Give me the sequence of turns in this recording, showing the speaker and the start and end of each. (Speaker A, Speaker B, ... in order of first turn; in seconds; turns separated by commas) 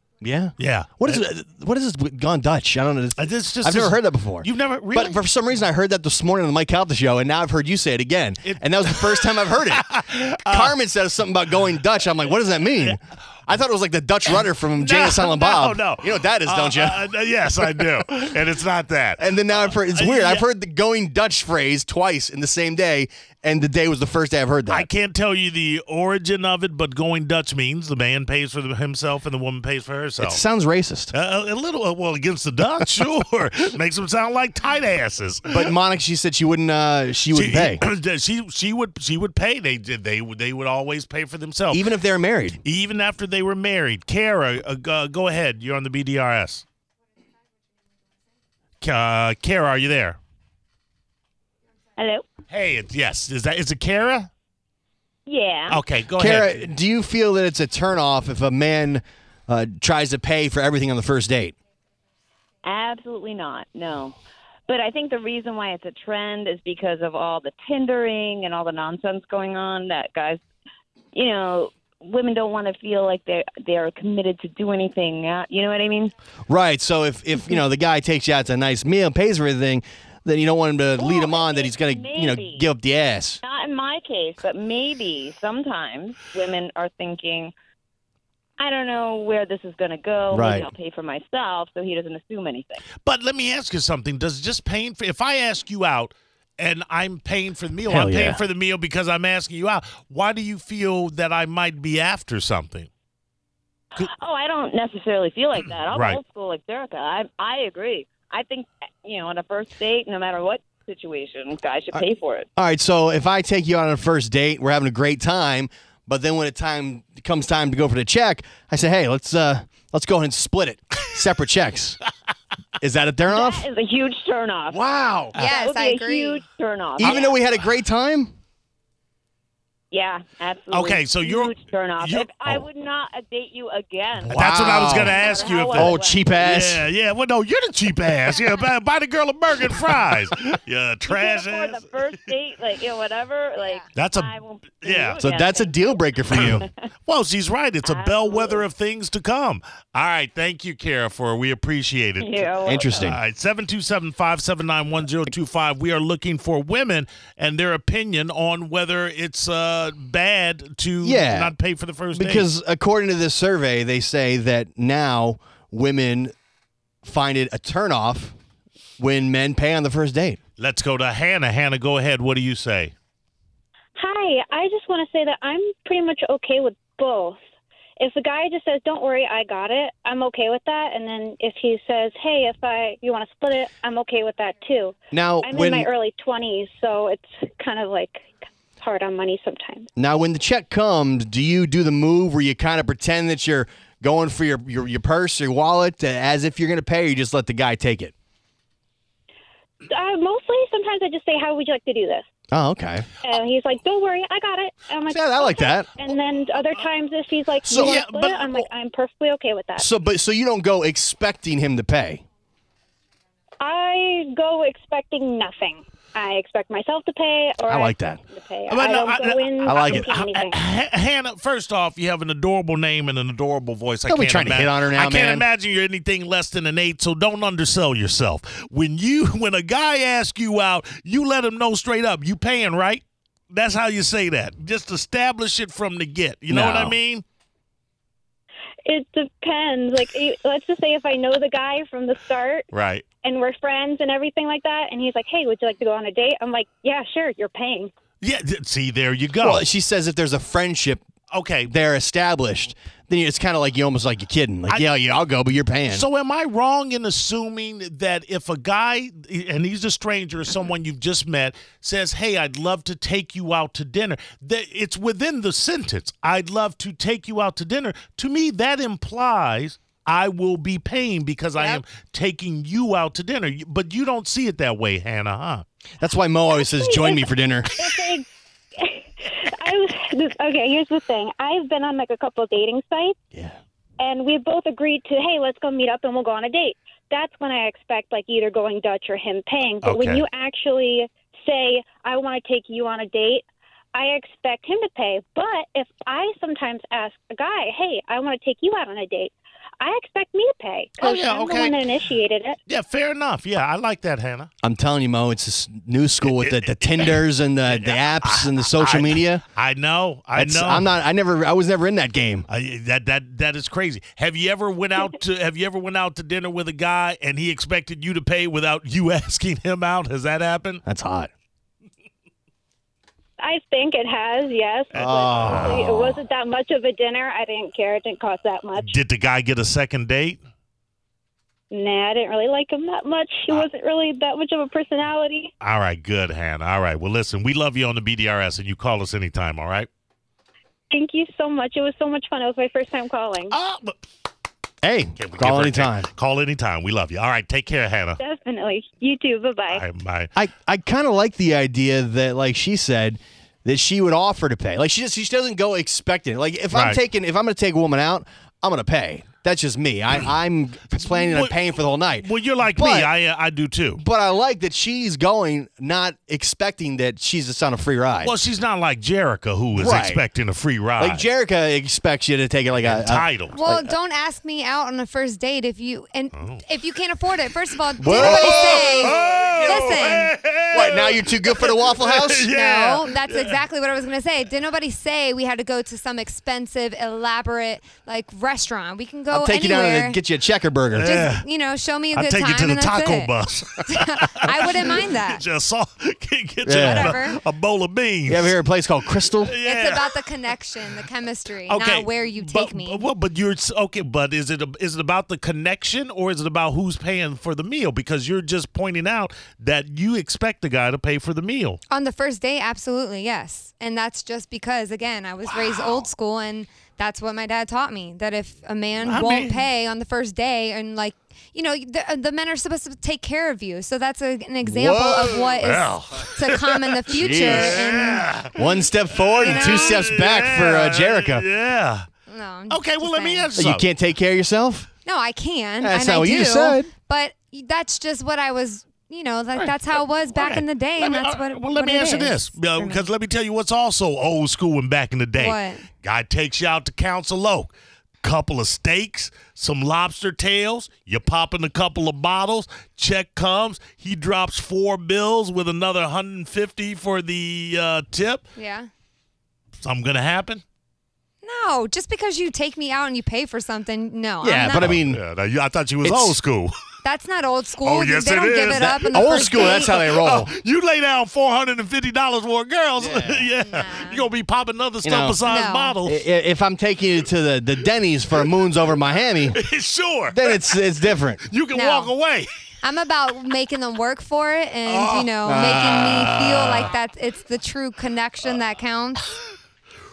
Speaker A: 0.2-17.1, Speaker B: 0.6-1.2, Speaker B: 3.2-5.2, Speaker B: 8.4-10.8, Speaker B: 14.8-20.4, Speaker A: 17.6-17.9, Speaker A: 19.2-24.9, Speaker B: 24.7-30.4, Speaker A: 30.2-31.1, Speaker B: 31.1-35.7, Speaker A: 35.5-37.8, Speaker B: 37.3-41.9, Speaker A: 41.7-42.6, Speaker B: 42.6-46.6, Speaker B: 48.8-50.2, Speaker C: 52.0-52.2, Speaker B: 52.5-54.3, Speaker C: 55.2-55.8, Speaker B: 55.7-56.6, Speaker A: 56.1-61.5, Speaker C: 62.6-64.2, Speaker C: 64.7-70.4, Speaker C: 71.1-76.1, Speaker A: 76.5-83.4, Speaker C: 81.0-82.7, Speaker C: 83.4-87.5, Speaker C: 88.6-92.8, Speaker A: 90.3-90.7, Speaker B: 93.0-102.9, Speaker A: 97.8-98.4, Speaker C: 104.0-112.5, Speaker B: 105.9-106.2, Speaker A: 112.5-122.0, Speaker A: 122.8-123.7, Speaker C: 123.3-124.8, Speaker B: 124.7-125.4, Speaker C: 125.3-127.4, Speaker D: 125.3-126.4, Speaker A: 127.0-128.3, Speaker C: 129.9-136.3, Speaker B: 130.7-132.6, Speaker B: 134.2-142.1, Speaker A: 134.3-136.9, Speaker C: 141.1-146.7, Speaker B: 143.9-145.2, Speaker A: 145.2-146.7, Speaker B: 147.1-162.4, Speaker C: 147.8-148.6, Speaker C: 152.2-152.9, Speaker A: 152.6-153.2, Speaker A: 161.0-161.5, Speaker A: 162.1-166.3, Speaker A: 167.0-168.3, Speaker A: 169.0-170.4, Speaker B: 170.6-172.9, Speaker E: 173.9-177.4, Speaker E: 178.0-189.9, Speaker A: 185.1-185.9, Speaker A: 189.9-198.1, Speaker E: 199.9-202.2, Speaker A: 202.5-203.1, Speaker E: 203.2-209.9, Speaker A: 205.1-206.1, Speaker A: 207.7-208.0, Speaker B: 207.7-208.7, Speaker A: 209.8-212.2, Speaker E: 213.6-220.6, Speaker A: 217.7-218.2, Speaker B: 218.7-237.2, Speaker A: 219.6-220.1, Speaker A: 224.1-225.4, Speaker A: 236.5-236.9, Speaker E: 238.8-242.7, Speaker B: 242.7-243.0, Speaker E: 243.2-247.9, Speaker B: 248.2-249.7, Speaker A: 249.4-251.0, Speaker B: 251.3-251.7, Speaker A: 251.7-256.1, Speaker B: 255.9-275.6, Speaker A: 276.0-277.7, Speaker E: 276.6-283.2, Speaker A: 283.3-283.6, Speaker E: 284.0-302.6, Speaker B: 289.8-290.2, Speaker B: 301.0-301.8, Speaker B: 302.7-304.5, Speaker A: 304.6-309.4, Speaker B: 306.2-310.9, Speaker A: 310.4-312.5, Speaker B: 312.5-320.8, Speaker A: 320.8-321.3, Speaker E: 323.4-329.0, Speaker B: 324.9-325.9, Speaker A: 324.9-326.1, Speaker B: 328.8-330.4, Speaker E: 331.7-335.5, Speaker B: 335.6-339.9, Speaker E: 340.9-343.6, Speaker B: 343.5-344.0, Speaker A: 344.8-346.1, Speaker B: 345.2-348.2, Speaker E: 348.2-349.8, Speaker B: 349.7-350.3, Speaker A: 350.4-363.1, Speaker B: 356.7-357.0, Speaker B: 361.0-361.6, Speaker B: 362.2-364.0, Speaker A: 364.0-368.3, Speaker B: 368.2-371.2, Speaker A: 369.7-370.2, Speaker A: 371.0-373.9, Speaker B: 372.8-373.6, Speaker D: 373.5-380.3, Speaker B: 376.3-376.6, Speaker A: 378.0-382.5, Speaker B: 378.0-383.6, Speaker D: 382.5-390.2, Speaker A: 389.3-391.2, Speaker B: 390.9-391.4, Speaker D: 391.0-393.3, Speaker B: 392.1-398.6, Speaker D: 393.8-395.4, Speaker A: 396.6-397.2, Speaker D: 396.8-397.4, Speaker A: 398.3-399.5, Speaker B: 399.4-400.2, Speaker D: 399.6-403.1, Speaker B: 401.7-411.8, Speaker D: 411.9-428.3, Speaker B: 415.5-416.1, Speaker B: 419.0-419.7, Speaker A: 424.6-425.4, Speaker B: 425.6-428.5, Speaker A: 427.1-427.9, Speaker A: 428.5-431.4, Speaker B: 429.3-432.1, Speaker D: 429.4-430.0, Speaker D: 432.3-433.5, Speaker B: 432.7-433.9, Speaker A: 433.5-434.9, Speaker D: 435.0-443.1, Speaker A: 435.8-436.9, Speaker B: 440.3-447.7, Speaker D: 445.4-445.9, Speaker B: 448.2-458.4, Speaker D: 458.6-458.9, Speaker B: 459.8-460.6, Speaker D: 461.4-464.9, Speaker A: 464.4-465.2, Speaker B: 464.8-466.7, Speaker A: 466.0-466.4, Speaker D: 467.0-470.1, Speaker B: 467.8-469.1, Speaker A: 469.0-470.5, Speaker B: 470.1-476.2, Speaker A: 473.0-473.5, Speaker D: 473.7-474.2, Speaker A: 475.0-475.4, Speaker D: 475.4-475.9, Speaker A: 476.0-479.6, Speaker B: 479.5-480.8, Speaker A: 480.3-481.4, Speaker B: 481.4-482.5, Speaker D: 481.7-482.1, Speaker D: 482.8-489.2, Speaker B: 484.9-486.9, Speaker A: 485.4-486.3